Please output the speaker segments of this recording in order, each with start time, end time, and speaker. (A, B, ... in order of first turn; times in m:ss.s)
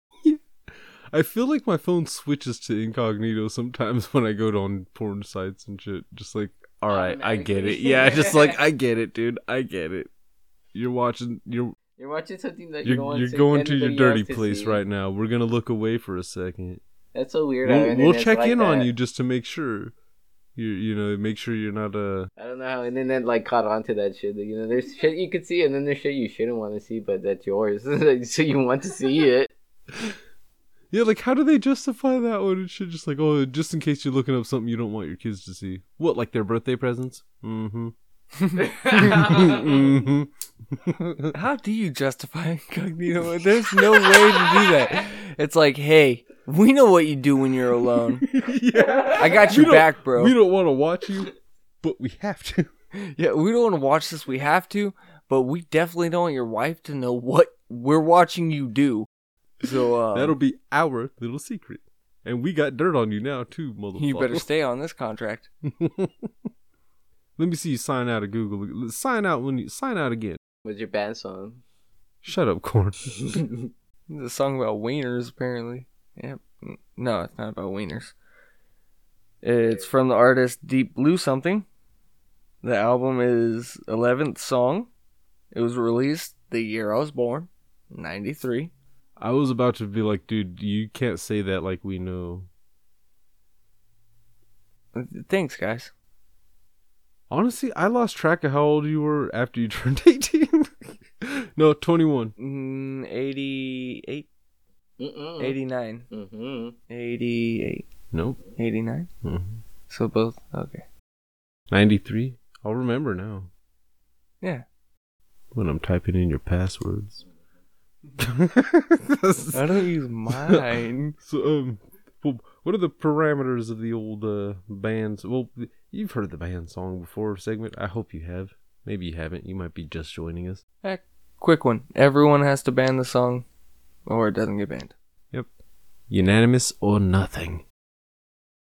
0:00.2-0:10.1 A
0:06.9-0:08.6 B
0:10.7-0:11.8 A
0:12.0-0:14.8 B
0:12.8-0:16.8 A
0:17.1-0:18.9 B
0:17.6-0:19.9 A
0:20.6-0:22.3 A
0:22.4-0:29.5 B
0:30.9-0:38.0 A
0:38.4-0:38.6 C
0:38.6-0:39.8 B
0:38.9-0:41.4 A
0:41.3-0:48.3 C
0:44.0-0:44.2 A
0:48.2-0:52.7 A
0:49.1-0:50.4 C
0:52.9-0:59.1 C
0:59.6-1:00.4 C
0:59.6-1:04.5 A
1:04.0-1:05.5 C
1:05.6-1:06.3 A
1:07.4-1:10.4 A
1:10.6-1:11.6 B
1:12.2-1:13.2 A
1:13.3-1:13.6 B
1:14.1-1:18.1 C
1:19.4-1:21.7 C
1:19.6-1:19.9 B
1:22.6-1:24.9 C
1:25.5-1:28.7 C
1:29.2-1:32.5 A
1:34.9-1:35.9 C
1:37.3-1:42.4 A
1:42.4-1:44.3 C
1:45.0-1:45.6 B
1:45.4-1:46.1 C
1:46.1-1:46.8 B
1:46.9-1:47.9 C
1:48.1-1:48.4 A
1:48.6-1:49.1 C
1:49.2-1:49.6 A
1:49.9-1:50.8 C
1:51.7-1:53.5 A
1:55.5-1:57.2 A
1:58.2-1:59.6 A
1:59.5-2:01.2 C
2:00.3-2:10.6 A
2:10.8-2:13.5 C
2:14.1-2:14.9 C
2:16.1-2:17.6 A